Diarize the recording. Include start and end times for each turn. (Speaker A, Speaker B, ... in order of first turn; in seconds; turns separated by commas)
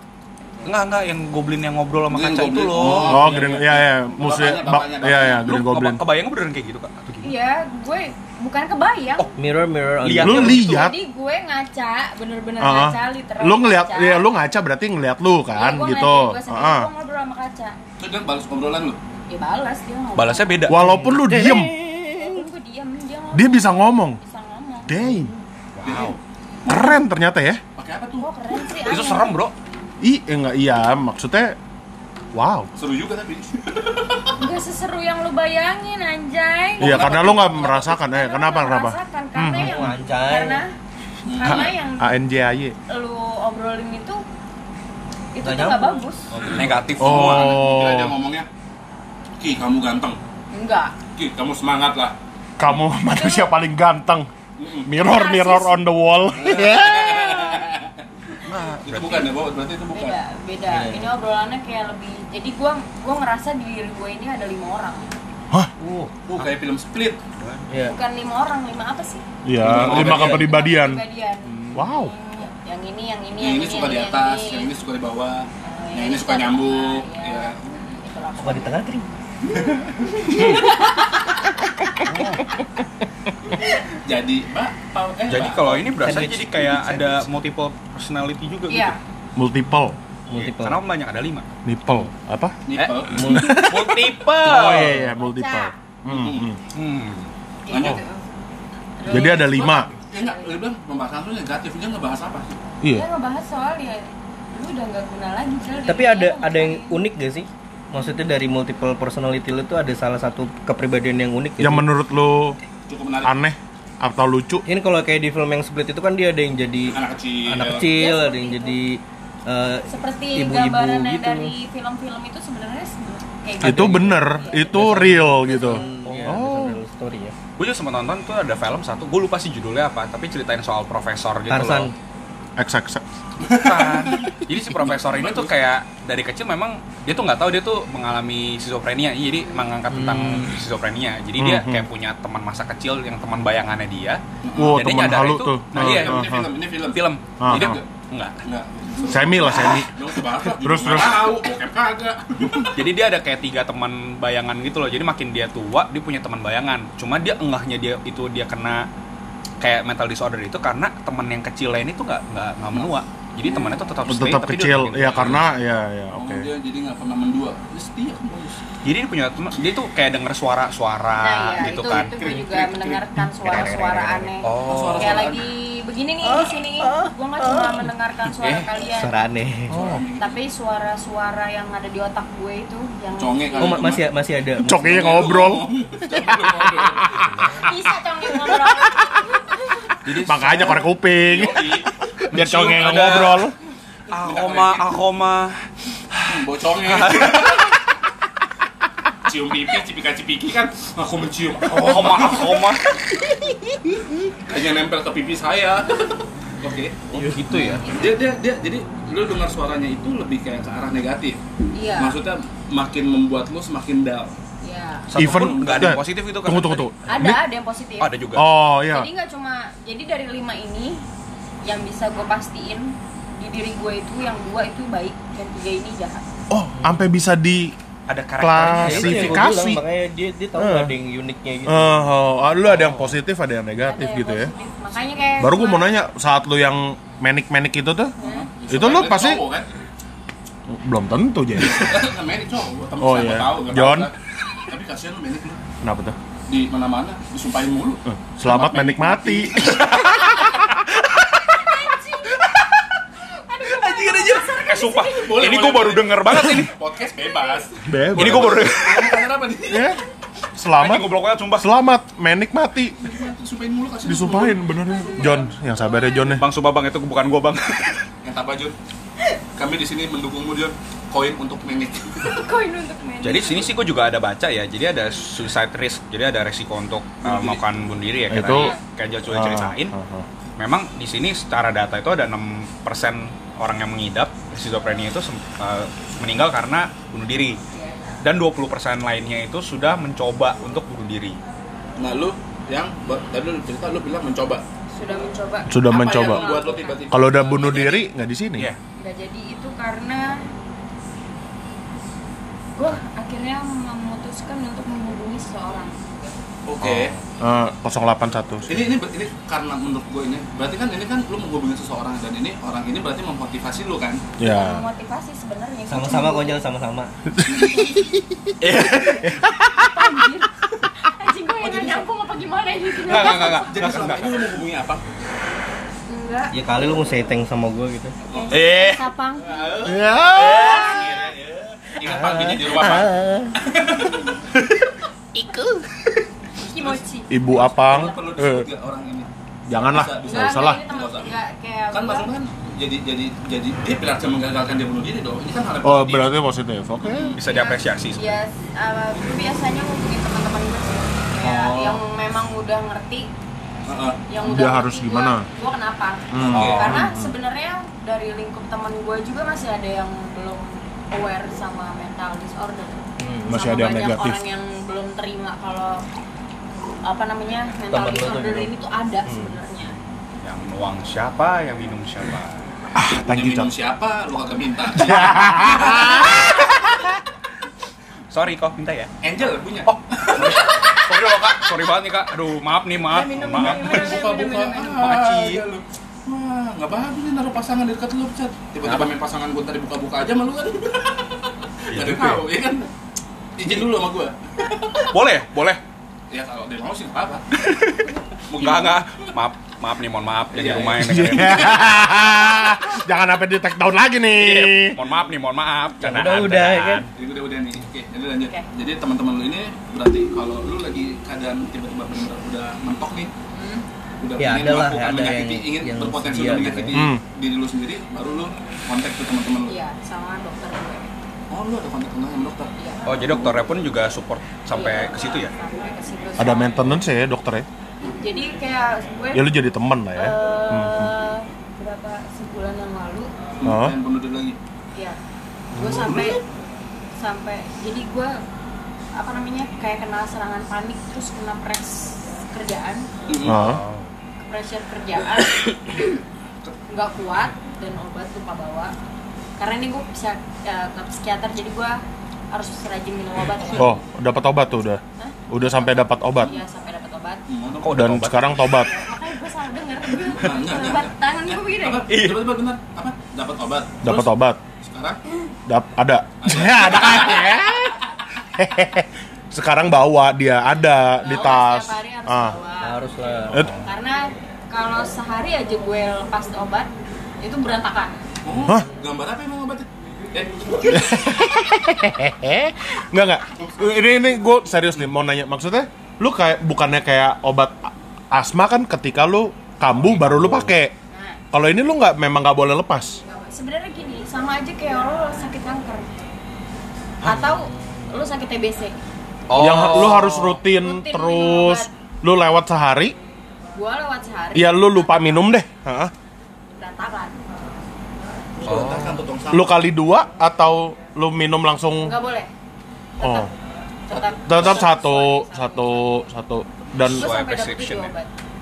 Speaker A: 0.7-3.4, Speaker B: 2.1-5.5, Speaker C: 3.0-6.0, Speaker A: 5.4-7.3, Speaker D: 7.2-9.3, Speaker E: 9.4-10.7, Speaker A: 10.0-10.9, Speaker C: 10.2-10.9, Speaker D: 10.5-14.3, Speaker C: 12.6-16.9, Speaker D: 15.5-17.8, Speaker B: 18.0-19.0, Speaker D: 19.3-20.8, Speaker A: 20.1-20.8, Speaker C: 20.7-21.8, Speaker E: 20.7-22.4, Speaker D: 22.1-24.9, Speaker C: 23.3-24.2, Speaker C: 24.9-25.3, Speaker A: 25.8-26.2, Speaker B: 25.9-27.0, Speaker C: 26.7-27.6, Speaker B: 27.8-28.3, Speaker D: 28.2-29.4, Speaker A: 28.8-29.5, Speaker C: 30.0-31.6, Speaker C: 32.3-32.7, Speaker B: 32.8-34.4, Speaker D: 34.4-37.1, Speaker B: 36.8-37.9, Speaker C: 36.8-39.9, Speaker D: 37.7-40.7, Speaker E: 39.5-40.6, Speaker B: 41.3-41.7, Speaker D: 41.3-42.1, Speaker C: 41.4-42.8, Speaker D: 42.9-44.2, Speaker D: 45.3-46.3, Speaker E: 45.4-46.9, Speaker A: 46.5-47.6, Speaker B: 46.5-48.5, Speaker C: 47.0-48.1, Speaker B: 49.4-50.2, Speaker D: 50.5-50.9, Speaker B: 51.1-52.2, Speaker C: 52.6-54.3, Speaker D: 53.1-53.5, Speaker B: 54.6-54.9, Speaker C: 54.8-57.6, Speaker D: 55.0-55.8, Speaker B: 56.4-58.0, Speaker C: 58.5-59.2, Speaker B: 58.8-60.2, Speaker D: 59.9-65.1, Speaker E: 60.7-61.1, Speaker E: 65.8-66.1, Speaker B: 66.3-67.2, Speaker A: 67.4-67.7, Speaker E: 67.7-68.0, Speaker D: 67.8-69.2, Speaker C: 69.5-71.0, Speaker E: 69.6-70.4, Speaker B: 69.7-70.3, Speaker D: 69.8-74.7, Speaker C: 71.7-72.1, Speaker B: 73.4-77.7, Speaker D: 75.6-78.8, Speaker E: 78.4-79.1, Speaker B: 79.5-79.9, Speaker D: 80.0-81.2, Speaker B: 84.0-85.9, Speaker A: 85.3-89.0, Speaker E: 86.0-87.2, Speaker D: 88.7-89.0, Speaker C: 89.4-90.0, Speaker E: 90.3-90.8, Speaker A: 90.3-91.5, Speaker C: 91.7-92.6, Speaker B: 92.7-93.4, Speaker A: 92.7-95.0, Speaker E: 93.1-93.7, Speaker C: 93.2-96.6, Speaker E: 94.7-95.1, Speaker D: 95.2-95.7, Speaker B: 96.1-96.6, Speaker A: 96.7-97.3, Speaker D: 97.7-98.2, Speaker B: 97.7-98.0, Speaker D: 99.0-100.6, Speaker C: 99.1-99.9, Speaker B: 99.1-102.6, Speaker C: 102.8-103.1, Speaker D: 102.9-107.0, Speaker E: 105.9-111.9, Speaker C: 111.6-112.6, Speaker B: 112.9-113.3, Speaker C: 113.2-114.7, Speaker E: 114.7-121.5, Speaker B: 116.8-118.0, Speaker D: 117.7-118.8, Speaker D: 119.9-126.0, Speaker C: 123.6-126.8, Speaker E: 123.6-127.3, Speaker A: 126.1-126.4, Speaker A: 127.6-131.9, Speaker E: 131.5-131.9, Speaker C: 132.6-133.0, Speaker B: 133.4-135.5, Speaker A: 133.5-144.2, Speaker E: 139.9-140.5, Speaker C: 141.4-141.8, Speaker B: 144.4-144.8, Speaker C: 144.6-146.5, Speaker A: 144.7-148.4, Speaker B: 145.8-147.8, Speaker C: 147.4-147.8, Speaker B: 148.4-152.8, Speaker C: 149.1-151.4, Speaker A: 152.7-158.9, Speaker A: 159.6-165.4, Speaker C: 164.1-166.5, Speaker B: 166.1-168.6, Speaker A: 168.8-172.3, Speaker D: 171.2-179.1, Speaker E: 171.9-174.4, Speaker A: 174.4-175.3, Speaker B: 174.6-175.4, Speaker E: 176.2-179.9, Speaker C: 179.7-180.0, Speaker B: 179.7-180.4, Speaker D: 180.2-184.0, Speaker B: 183.1-184.1, Speaker E: 183.6-185.2, Speaker C: 184.6-187.5, Speaker B: 184.7-187.3, Speaker D: 187.5-189.8, Speaker A: 190.1-190.8, Speaker C: 190.2-193.6, Speaker B: 191.2-191.9, Speaker A: 192.3-193.5, Speaker B: 194.1-194.9, Speaker A: 194.1-197.7, Speaker B: 196.3-197.7, Speaker B: 199.2-202.7, Speaker A: 201.7-202.8, Speaker B: 204.5-207.3, Speaker A: 207.1-207.9, Speaker B: 207.8-211.4, Speaker D: 211.7-212.2, Speaker B: 212.0-214.4, Speaker D: 214.6-215.1, Speaker A: 215.1-216.9, Speaker C: 215.1-217.4, Speaker B: 215.2-216.0, Speaker D: 217.1-218.1, Speaker A: 218.0-218.5, Speaker C: 218.3-219.1, Speaker D: 218.9-221.0, Speaker D: 221.6-226.2, Speaker C: 226.5-227.7, Speaker A: 228.1-229.5, Speaker C: 228.4-229.8, Speaker E: 228.8-232.1, Speaker C: 230.6-230.9, Speaker C: 231.7-234.5, Speaker D: 233.8-235.9, Speaker C: 235.4-238.1, Speaker D: 238.2-238.5, Speaker B: 238.2-239.7, Speaker C: 238.7-239.4, Speaker C: 240.7-242.1, Speaker B: 241.6-245.6, Speaker C: 243.0-244.1, Speaker C: 245.8-246.2, Speaker B: 246.5-249.9, Speaker C: 248.1-249.9, Speaker A: 249.6-250.3, Speaker D: 251.6-252.3, Speaker D: 253.5-255.3, Speaker A: 253.8-256.7, Speaker B: 255.1-259.9, Speaker C: 257.8-258.7, Speaker A: 258.1-259.3, Speaker C: 259.7-260.0, Speaker C: 260.6-263.0, Speaker A: 260.7-261.7, Speaker B: 262.9-264.6, Speaker C: 264.1-266.4, Speaker D: 264.8-266.4, Speaker A: 266.3-268.0, Speaker B: 268.2-268.8, Speaker B: 269.6-272.4, Speaker D: 272.2-273.7, Speaker A: 273.2-279.9, Speaker B: 277.2-278.0, Speaker C: 278.3-278.7, Speaker D: 278.5-278.8, Speaker C: 279.3-280.3, Speaker A: 280.6-287.6, Speaker A: 288.2-291.4, Speaker B: 292.0-294.6, Speaker D: 294.9-297.1, Speaker C: 295.7-296.5, Speaker B: 295.9-298.1, Speaker C: 297.1-298.7, Speaker D: 299.0-300.5, Speaker D: 302.8-305.9, Speaker B: 306.6-307.1, Speaker C: 306.9-308.9, Speaker B: 308.7-314.2, Speaker C: 314.4-314.9, Speaker D: 314.4-316.6, Speaker E: 315.9-317.1, Speaker C: 317.4-318.5, Speaker B: 317.4-318.0, Speaker D: 317.7-317.9, Speaker A: 318.6-319.4, Speaker D: 319.8-323.7, Speaker B: 321.6-322.1, Speaker A: 323.1-324.6, Speaker B: 323.1-325.1, Speaker D: 326.1-326.6, Speaker E: 326.5-328.2, Speaker B: 328.3-328.7, Speaker D: 328.3-329.6, Speaker A: 328.5-329.0, Speaker B: 329.4-334.5, Speaker C: 329.8-331.0, Speaker D: 330.6-331.3, Speaker E: 332.0-333.6, Speaker A: 335.4-335.9, Speaker D: 336.6-337.3, Speaker B: 336.6-339.3, Speaker C: 337.3-338.7, Speaker C: 339.7-340.8, Speaker B: 339.8-341.3, Speaker D: 340.2-342.3, Speaker B: 341.9-346.4, Speaker C: 345.8-347.4, Speaker B: 347.1-347.4, Speaker D: 347.4-353.3, Speaker A: 347.4-348.4, Speaker B: 353.9-354.2, Speaker D: 354.3-366.0, Speaker C: 354.4-355.5, Speaker C: 356.3-357.3, Speaker B: 356.5-357.0, Speaker A: 356.5-356.9, Speaker E: 363.2-363.6, Speaker C: 363.5-364.4, Speaker D: 367.0-369.9, Speaker E: 367.9-368.7, Speaker A: 370.4-372.6, Speaker C: 372.9-373.7, Speaker B: 373.2-376.6, Speaker C: 375.0-376.4, Speaker A: 375.8-376.6, Speaker A: 378.3-379.1, Speaker B: 379.2-380.7, Speaker A: 379.9-384.2, Speaker D: 383.1-385.1, Speaker B: 383.6-392.9, Speaker A: 385.0-385.7, Speaker A: 388.8-389.1, Speaker A: 391.9-392.4, Speaker B: 393.6-395.1, Speaker A: 395.1-395.8, Speaker B: 396.3-397.5, Speaker A: 397.6-401.8, Speaker B: 398.5-399.0, Speaker B: 400.5-401.9, Speaker C: 400.9-405.0, Speaker A: 404.3-407.1, Speaker E: 406.0-407.1, Speaker B: 407.1-413.3, Speaker D: 413.5-413.9, Speaker B: 414.2-419.7, Speaker E: 414.4-417.0, Speaker C: 416.9-417.2, Speaker D: 419.7-421.1, Speaker B: 421.5-423.6, Speaker D: 422.8-423.0, Speaker A: 423.1-425.5, Speaker D: 424.7-427.0, Speaker C: 426.4-427.7, Speaker D: 428.2-429.5, Speaker C: 429.3-431.1, Speaker D: 430.1-433.3, Speaker B: 433.6-434.6, Speaker C: 433.6-433.9, Speaker D: 435.7-436.4, Speaker C: 435.8-436.2, Speaker B: 435.8-436.3, Speaker D: 437.2-438.4, Speaker D: 439.1-443.1, Speaker B: 443.3-443.6, Speaker C: 443.4-443.8, Speaker A: 443.4-444.1, Speaker D: 444.4-446.2, Speaker D: 446.9-448.9, Speaker D: 449.6-454.0, Speaker C: 453.8-456.6, Speaker D: 455.2-457.4, Speaker B: 457.5-458.2, Speaker A: 457.8-458.7, Speaker C: 457.9-458.9, Speaker D: 458.6-462.1, Speaker B: 460.3-465.2, Speaker A: 462.1-462.6, Speaker C: 464.0-464.6, Speaker C: 465.7-468.0, Speaker B: 466.4-467.6, Speaker C: 468.6-472.6, Speaker D: 471.2-478.2, Speaker E: 472.8-473.7, Speaker B: 478.4-481.3, Speaker C: 480.9-490.9, Speaker A: 490.0-490.7, Speaker D: 491.1-491.4, Speaker C: 491.5-493.2, Speaker D: 493.2-496.2, Speaker D: 497.2-499.0, Speaker E: 497.2-498.0, Speaker A: 499.5-500.6, Speaker C: 499.5-503.2, Speaker D: 500.7-501.9, Speaker D: 503.7-505.4, Speaker C: 504.5-506.1, Speaker D: 506.7-507.4, Speaker B: 508.6-509.8, Speaker A: 508.7-509.2, Speaker C: 509.5-512.1, Speaker D: 512.0-512.5, Speaker D: 513.2-513.5, Speaker C: 513.2-513.5, Speaker D: 514.1-516.1, Speaker B: 514.1-514.7, Speaker C: 514.5-517.3, Speaker A: 517.0-518.1, Speaker D: 517.0-518.3